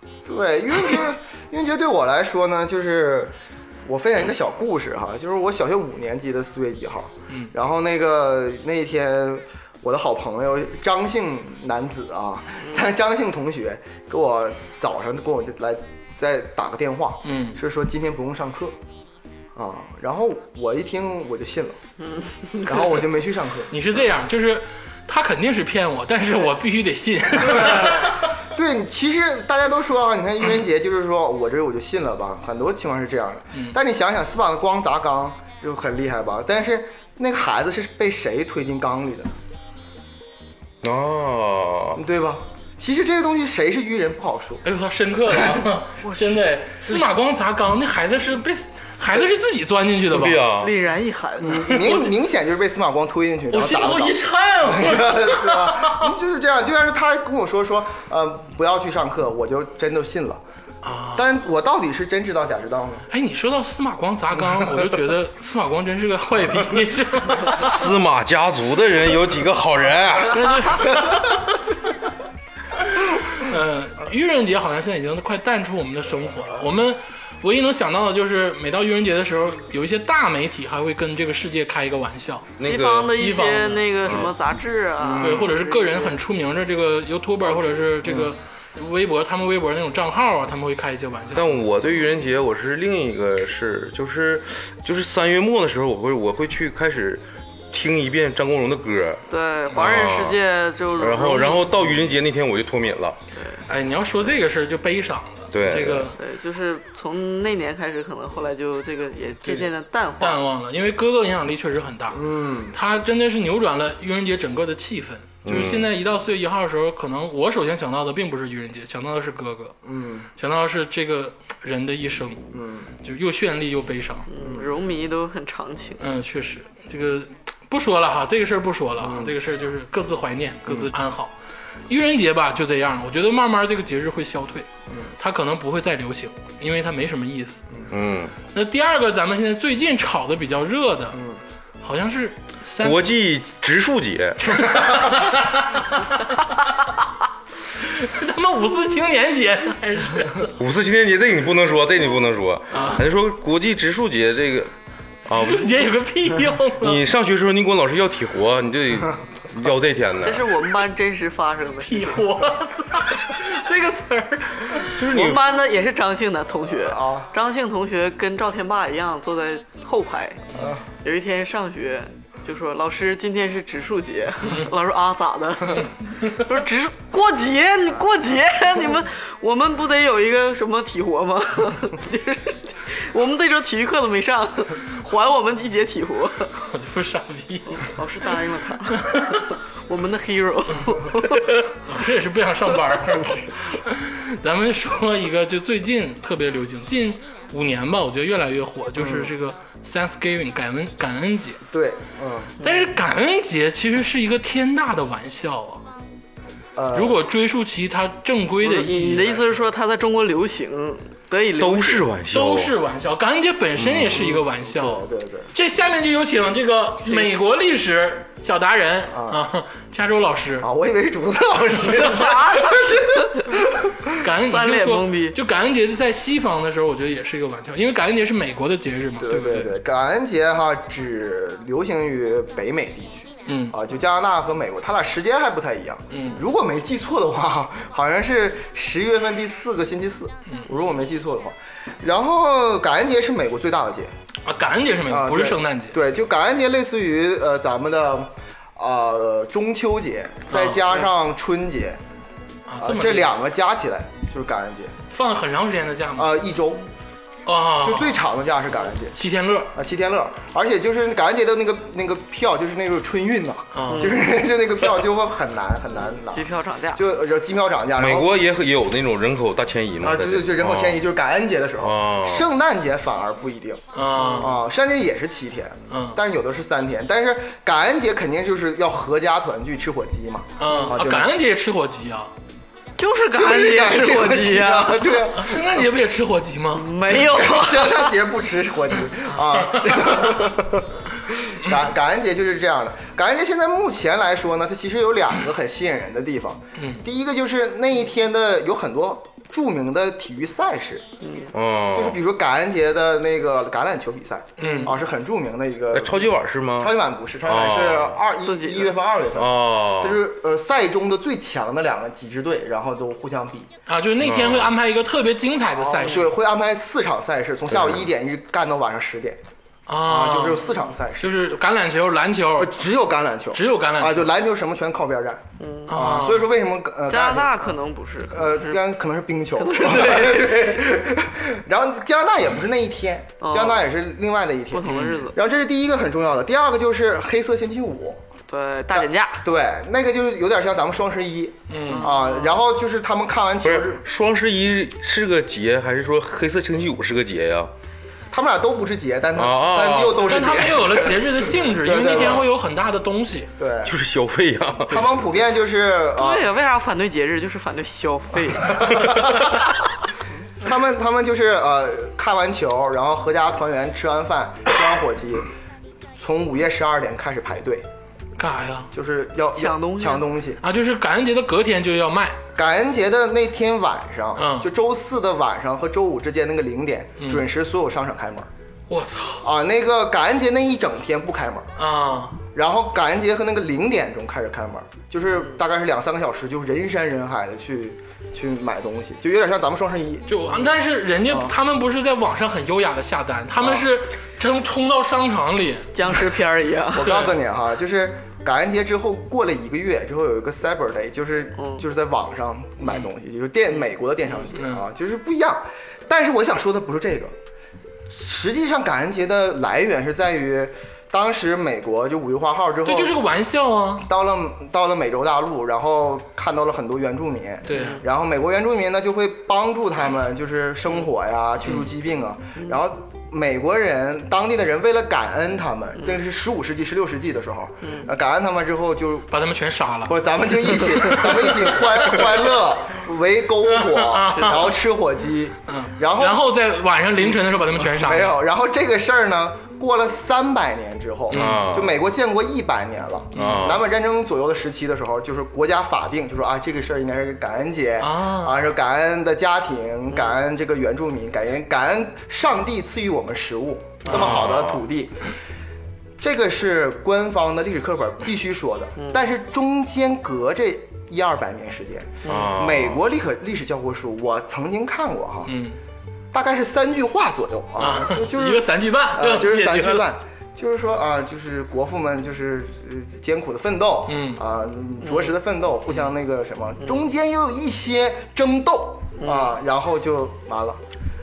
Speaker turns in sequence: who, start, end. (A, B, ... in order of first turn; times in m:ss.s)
0:00.3-0:18.8 A
0:17.2-0:17.6 B
0:19.6-0:21.8 A
0:22.1-0:22.8 C
0:22.6-0:23.7 A
0:23.7-0:28.2 B
0:28.5-0:39.3 A
0:40.8-0:42.0 D
0:42.0-0:44.6 A
0:44.6-0:50.5 B
0:50.1-0:50.7 D
0:50.6-0:51.8 C
0:51.4-1:00.4 A
0:51.7-0:52.1 B
0:53.5-0:56.1 B
1:00.8-1:01.3 B
1:01.2-1:03.1 A
1:03.1-1:07.7 B
1:07.5-1:10.8 D
1:10.3-1:11.6 B
1:12.9-1:22.5 B
1:22.6-1:23.2 D
1:22.6-1:26.2 C
1:23.1-1:24.3 B
1:24.0-1:24.3 D
1:25.0-1:25.4 A
1:25.2-1:31.5 B
1:31.3-1:40.4 D
1:39.3-1:41.7 C
1:41.0-1:43.2 D
1:43.3-1:43.6 C
1:43.7-1:46.2 B
1:45.5-1:46.1 D
1:46.2-1:50.4 C
1:50.2-1:59.8 B
1:52.1-1:52.8 A
1:55.4-1:55.9 D
1:59.8-2:00.3 A
2:00.4-2:02.5 B
2:02.5-2:02.9 A
2:03.0-2:04.3 B
2:04.3-2:06.0 C
2:04.4-2:04.7 A
2:06.0-2:11.3 B
2:09.0-2:09.4 A
2:11.9-2:17.6 B
2:17.9-2:18.4 D
2:18.5-2:21.2 B
2:21.1-2:21.4 A
2:21.8-2:23.1 B
2:22.8-2:24.8 D
2:24.6-2:26.4 B
2:27.8-2:30.5 B
2:30.6-2:34.7 D
2:32.7-2:33.0 B
2:35.3-2:35.9 D
2:35.3-2:37.0 B
2:36.8-2:40.5 D
2:40.2-2:42.1 C
2:41.8-2:45.0 B
2:45.0-2:45.5 D
2:45.1-2:50.5 C
2:46.6-2:47.3 A
2:50.6-2:50.8 A
2:51.0-3:06.5 C
3:06.6-3:07.8 B
3:07.7-3:11.6 C
3:09.0-3:09.5 B
3:11.3-3:21.6 B
3:19.0-3:19.3 A
3:21.7-3:22.6 A
3:22.6-3:25.8 B
3:26.8-3:27.2 A
3:26.9-3:29.6 B
3:28.6-3:32.1 C
3:31.6-3:32.7 D
3:32.3-3:40.7 B
3:33.8-3:34.3 D
3:34.1-3:35.5 A
3:39.1-3:39.4 A
3:40.6-3:44.2 A
3:42.0-3:43.5 C
3:44.2-3:49.7 B
3:44.5-3:45.4 C
3:49.2-4:04.1 A
3:53.5-3:53.8 B
3:56.1-3:56.4 B
4:04.4-4:06.0 B
4:05.1-4:12.0 A
4:10.5-4:11.0 B
4:12.7-4:13.3 B
4:12.8-4:15.0 A
4:15.1-4:16.4 B
4:16.2-4:16.9 A
4:17.5-4:18.2 B
4:17.8-4:19.2 A
4:19.1-4:19.7 B
4:19.7-4:28.4 A
4:23.7-4:24.2 B
4:23.9-4:24.3 C
4:25.9-4:27.0 C
4:28.0-4:31.0 D
4:30.0-4:33.8 A
4:31.8-4:32.4 D
4:34.0-4:34.6 B
4:34.2-4:34.4 C
4:34.4-4:41.3 A
4:35.9-4:36.2 B
4:40.6-4:42.3 B
4:43.0-4:45.2 C
4:43.3-4:45.8 A
4:45.3-4:46.9 B
4:46.8-4:48.2 C
4:47.1-5:01.0 A
4:49.6-4:50.3 B
5:01.2-5:01.5 C
5:01.5-5:02.2 D
5:01.9-5:13.7 A
5:04.6-5:04.9 B
5:04.6-5:04.9 C
5:05.9-5:06.9 D
5:07.5-5:08.2 D
5:08.4-5:09.0 C
5:09.4-5:10.2 D
5:13.9-5:16.3 B
5:14.2-5:14.7 D
5:15.7-5:19.4 A
5:17.7-5:18.0 D
5:19.9-5:20.7 B
5:20.0-5:21.4 A
5:21.2-5:22.8 B
5:22.6-5:27.8 A
5:23.5-5:24.3 B
5:25.6-5:25.9 C
5:25.9-5:26.5 B
5:27.1-5:28.8 C
5:28.3-5:38.2 A
5:29.6-5:30.8 C
5:33.4-5:33.9 C
5:34.7-5:35.4 C
5:34.9-5:35.2 B
5:38.5-5:39.4 C
5:38.9-5:44.0 A
5:41.7-5:42.1 B
5:41.9-5:42.6 C
5:43.6-5:47.7 D
5:48.3-5:52.5 A
5:49.4-5:50.6 D
5:50.2-5:53.5 B
5:53.6-5:54.0 A
5:53.8-5:55.1 D
5:54.9-5:56.5 A
5:56.2-5:59.1 C
5:58.8-5:59.5 A
6:00.6-6:05.5 A
6:06.2-6:07.9 A
6:08.4-6:08.9 B
6:08.9-6:10.6 A
6:09.6-6:10.3 C
6:10.6-6:12.4 B
6:12.6-6:18.5 A
6:14.4-6:14.7 B
6:17.2-6:17.5 B
6:18.9-6:19.4 B
6:19.4-6:21.7 A
6:21.8-6:22.4 B
6:22.5-6:30.5 A
6:30.3-6:36.0 B
6:31.3-6:31.6 A
6:33.6-6:33.9 A
6:36.0-6:37.1 C
6:36.9-6:47.4 A
6:37.0-6:37.3 B
6:41.6-6:41.8 C
6:44.6-6:44.8 B
6:48.1-6:53.2 A
6:52.8-6:54.1 B
6:54.0-7:09.3 A
6:57.7-6:58.0 B
6:57.7-6:58.0 C
7:07.8-7:08.1 C
7:09.3-7:12.2 B
7:10.1-7:16.4 A
7:13.7-7:14.7 B
7:15.7-7:18.4 B
7:17.8-7:35.3 A
7:21.3-7:21.7 B
7:21.3-7:22.0 D
7:23.3-7:23.7 B
7:23.4-7:23.8 D
7:28.0-7:28.6 B
7:30.1-7:30.4 C
7:34.0-7:34.6 B
7:34.1-7:34.8 D
7:36.2-7:45.5 A
7:39.0-7:39.2 C
7:42.2-7:42.6 C
7:42.3-7:43.0 D
7:45.5-7:45.8 B
7:46.3-8:00.8 A
7:47.8-7:50.1 B
7:54.1-7:54.4 B
7:55.0-7:55.3 C
7:59.2-7:59.6 C